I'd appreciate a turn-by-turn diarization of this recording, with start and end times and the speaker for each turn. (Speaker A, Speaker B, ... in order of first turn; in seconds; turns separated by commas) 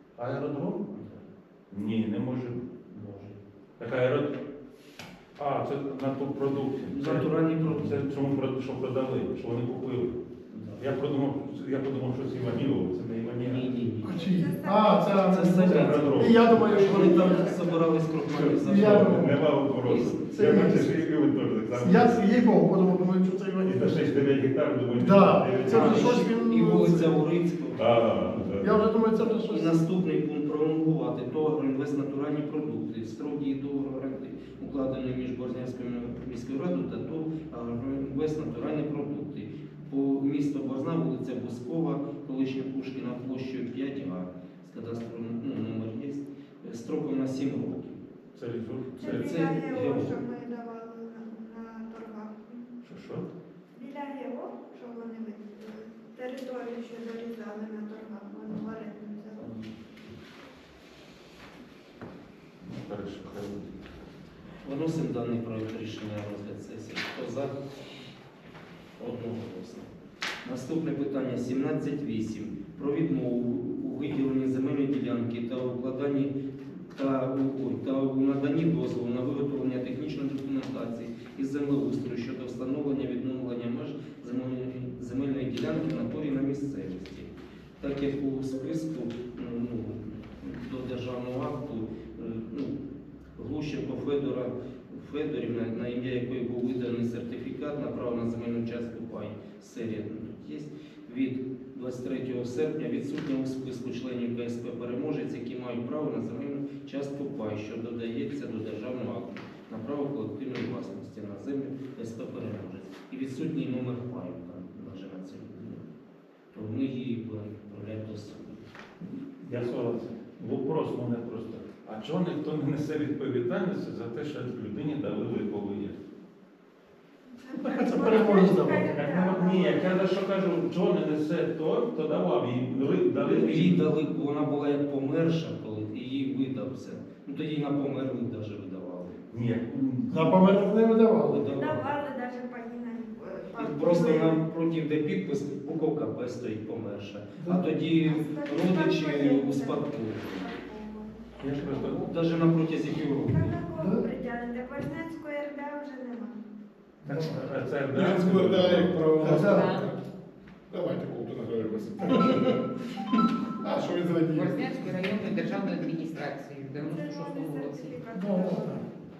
Speaker A: 0.2-0.9, Speaker B: 0.9-1.2, Speaker A: 1.7-2.7, Speaker B: 2.9-3.4, Speaker A: 3.8-4.4, Speaker A: 5.4-10.2, Speaker B: 6.9-8.1, Speaker B: 10.5-10.8, Speaker A: 10.8-13.6, Speaker B: 13.4-14.3, Speaker C: 14.0-15.5, Speaker D: 14.0-17.6, Speaker B: 15.0-19.1, Speaker A: 15.6-16.7, Speaker C: 16.7-17.8, Speaker A: 18.3-22.3, Speaker D: 18.6-19.4, Speaker B: 19.8-20.3, Speaker D: 20.3-20.9, Speaker D: 21.7-24.2, Speaker A: 23.6-26.2, Speaker D: 25.0-27.2, Speaker B: 25.6-27.9, Speaker A: 27.8-28.8, Speaker D: 28.6-29.9, Speaker B: 29.5-48.0, Speaker A: 48.3-50.1, Speaker C: 49.0-52.7, Speaker B: 49.0-49.6, Speaker A: 52.8-53.3, Speaker C: 53.7-59.5, Speaker A: 59.4-59.7, Speaker A: 62.6-64.0, Speaker B: 64.6-67.5, Speaker B: 69.0-69.9, Speaker B: 70.4-92.8, Speaker B: 93.3-115.8, Speaker B: 116.5-118.6, Speaker A: 119.0-126.0, Speaker C: 127.3-130.0, Speaker D: 127.6-128.9, Speaker A: 127.7-133.8, Speaker B: 133.2-139.2, Speaker A: 139.3-140.3, Speaker D: 140.1-141.4, Speaker B: 141.2-141.9, Speaker C: 141.5-144.4, Speaker B: 143.6-150.5, Speaker D: 147.4-147.6, Speaker C: 148.0-152.1, Speaker A: 151.4-152.1, Speaker B: 151.9-153.5, Speaker C: 153.3-156.4, Speaker D: 153.8-154.1, Speaker A: 157.0-159.0, Speaker D: 157.0-157.3, Speaker E: 157.9-160.0, Speaker D: 159.2-159.8, Speaker F: 159.3-159.8, Speaker E: 160.7-162.6, Speaker E: 163.6-164.7, Speaker F: 164.3-168.0, Speaker C: 166.7-168.9, Speaker D: 168.1-168.8